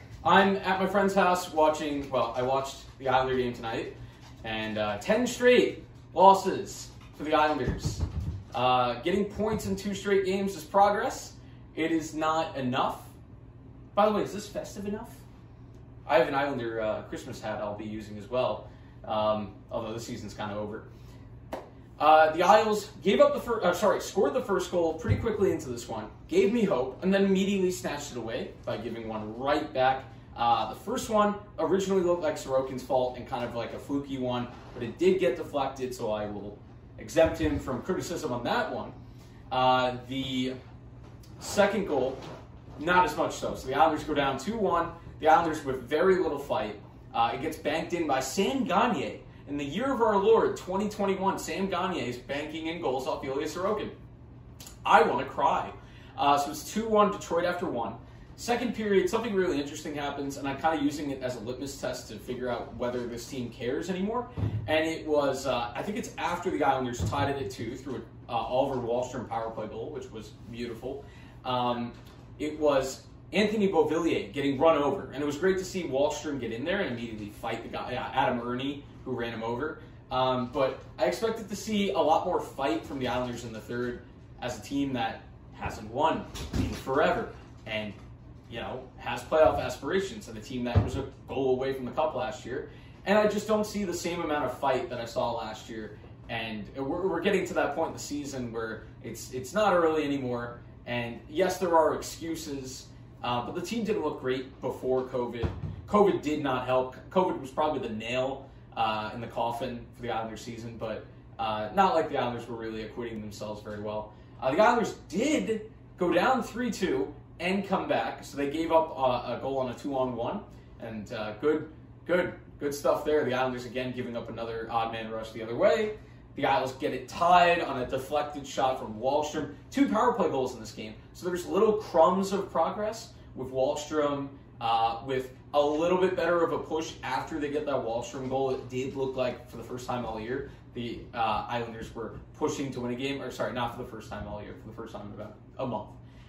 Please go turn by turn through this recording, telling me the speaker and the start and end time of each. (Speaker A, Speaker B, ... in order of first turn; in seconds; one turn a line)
Speaker A: 0.2-13.2
Speaker A: 13.9-15.2
Speaker A: 16.1-20.9
Speaker A: 22.0-39.0
Speaker A: 39.5-40.6
Speaker A: 41.4-42.2
Speaker A: 42.8-53.9
Speaker A: 54.8-88.0
Speaker A: 88.5-146.0